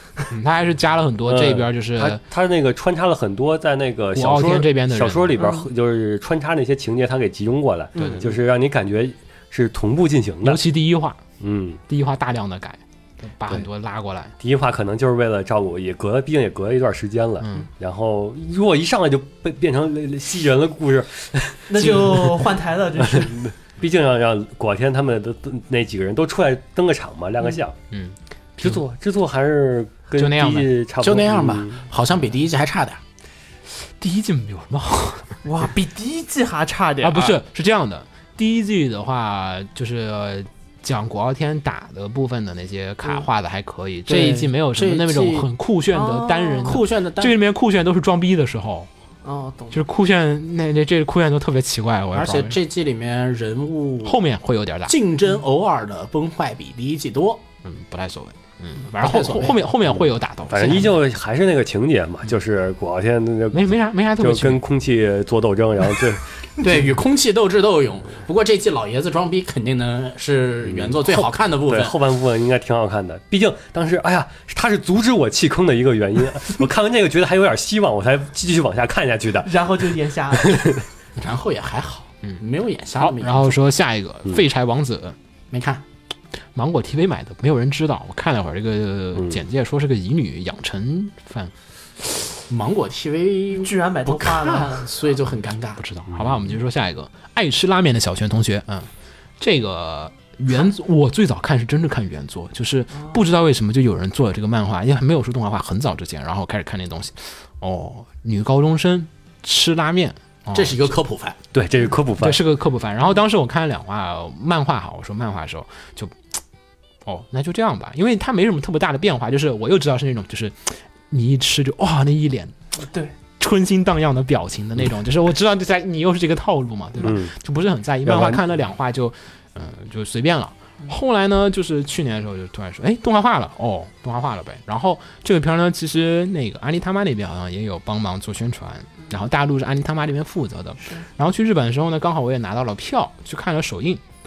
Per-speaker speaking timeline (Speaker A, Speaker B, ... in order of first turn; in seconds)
Speaker A: 0.3-2.2, 4.1-5.4, 8.0-8.3, 10.4-11.2, 11.9-14.3, 17.4-17.7, 21.8-22.2, 27.9-28.8, 30.1-30.7, 34.0-35.4, 37.0-48.9, 49.7-52.5, 54.0-54.9, 57.6-61.0, 63.5-64.6, 83.0-85.2, 86.5-92.3, 95.8-110.9, 112.2-116.1, 117.0-122.5, 123.4-144.0
Speaker B: 1.3-10.6, 11.4-11.8, 14.4-22.4, 23.0-27.7, 28.6-31.8, 60.5-66.2, 70.7-79.5, 80.3-80.8, 111.5-112.4, 127.0-127.3, 128.1-128.4
Speaker C: 5.3-5.7, 8.0-8.3, 21.7-23.3, 35.4-37.4, 45.9-46.8, 49.2-49.8, 79.4-80.6, 93.6-94.9, 122.8-123.1
Speaker D: 31.0-33.0, 44.1-45.5, 46.6-47.4, 52.1-54.2, 54.9-57.4, 59.0-59.6, 66.6-71.9, 81.2-83.5, 85.5-85.8, 92.5-95.8, 110.5-111.3